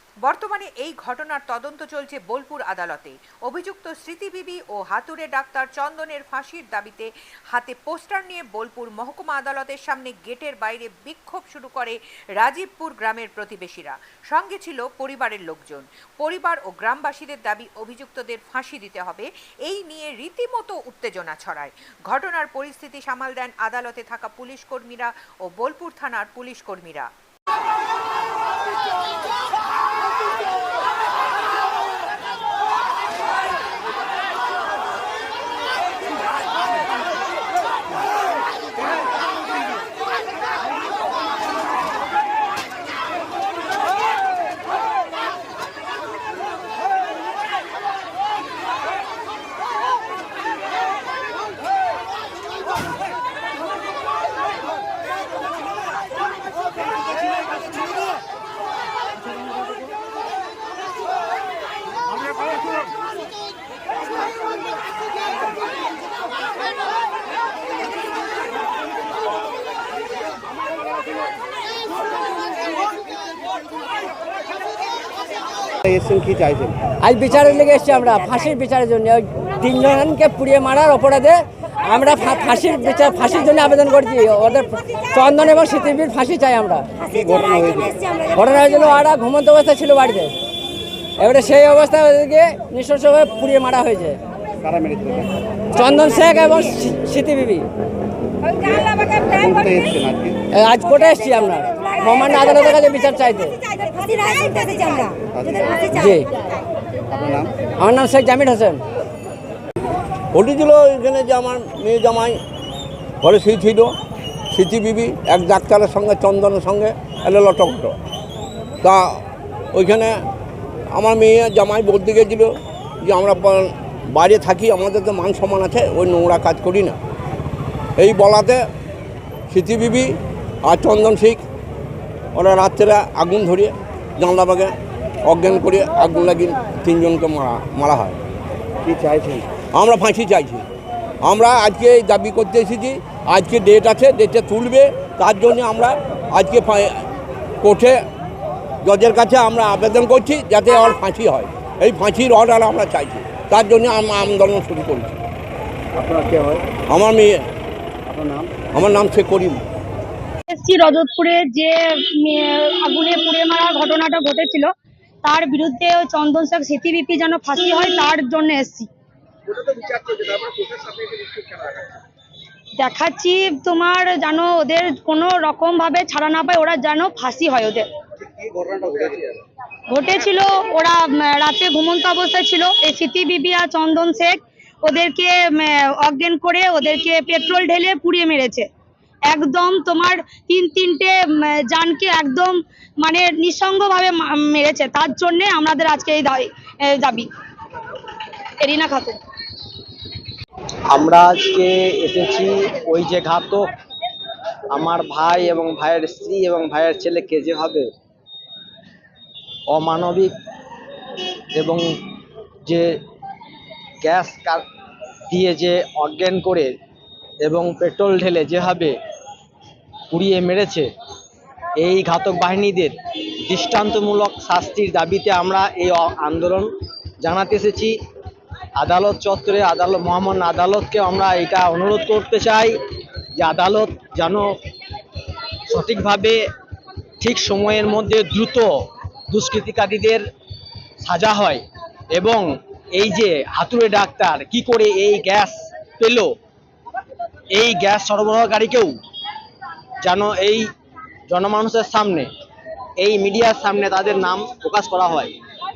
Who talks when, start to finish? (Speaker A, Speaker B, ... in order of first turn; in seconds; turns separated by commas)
Speaker A: 0.2-27.1, Speaker B: 75.9-76.8, Speaker C: 77.0-87.1, Speaker B: 87.1-88.0, Speaker C: 88.0-90.4, Speaker C: 91.2-94.2, Speaker B: 94.6-95.3, Speaker C: 95.7-97.7, Speaker B: 99.1-100.4, Speaker C: 100.5-105.0, Speaker B: 105.3-105.8, Speaker C: 105.8-106.3, Speaker B: 107.2-107.5, Speaker C: 107.7-108.8, Speaker D: 110.3-112.4, Speaker D: 113.2-114.0, Speaker D: 114.5-118.0, Speaker D: 118.8-119.2, Speaker D: 119.7-120.2, Speaker D: 120.9-127.0, Speaker D: 128.0-128.7, Speaker D: 129.5-131.4, Speaker D: 132.3-134.7, Speaker D: 135.2-138.2, Speaker B: 138.9-139.5, Speaker D: 139.7-140.6, Speaker D: 141.2-147.1, Speaker D: 147.6-148.0, Speaker D: 148.8-155.2, Speaker B: 156.0-156.7, Speaker D: 156.9-157.4, Speaker B: 158.1-158.5, Speaker D: 158.7-159.6, Speaker E: 160.5-164.7, Speaker E: 165.2-168.9, Speaker F: 169.9-170.6, Speaker E: 172.8-177.9, Speaker F: 178.6-179.2, Speaker E: 179.9-188.7, Speaker E: 189.3-197.3, Speaker E: 198.6-199.2, Speaker F: 200.9-203.7, Speaker F: 204.7-207.9, Speaker F: 209.7-210.3, Speaker F: 211.5-213.0, Speaker F: 214.0-214.6, Speaker F: 215.3-216.7, Speaker F: 217.4-219.0, Speaker F: 220.1-220.9, Speaker F: 221.8-228.0, Speaker F: 228.8-232.8, Speaker F: 233.4-234.5, Speaker F: 235.7-236.4, Speaker F: 237.2-238.8, Speaker F: 239.3-240.2, Speaker F: 241.0-246.3, Speaker F: 247.5-249.0, Speaker F: 250.0-250.7, Speaker F: 251.3-252.3, Speaker F: 253.0-255.3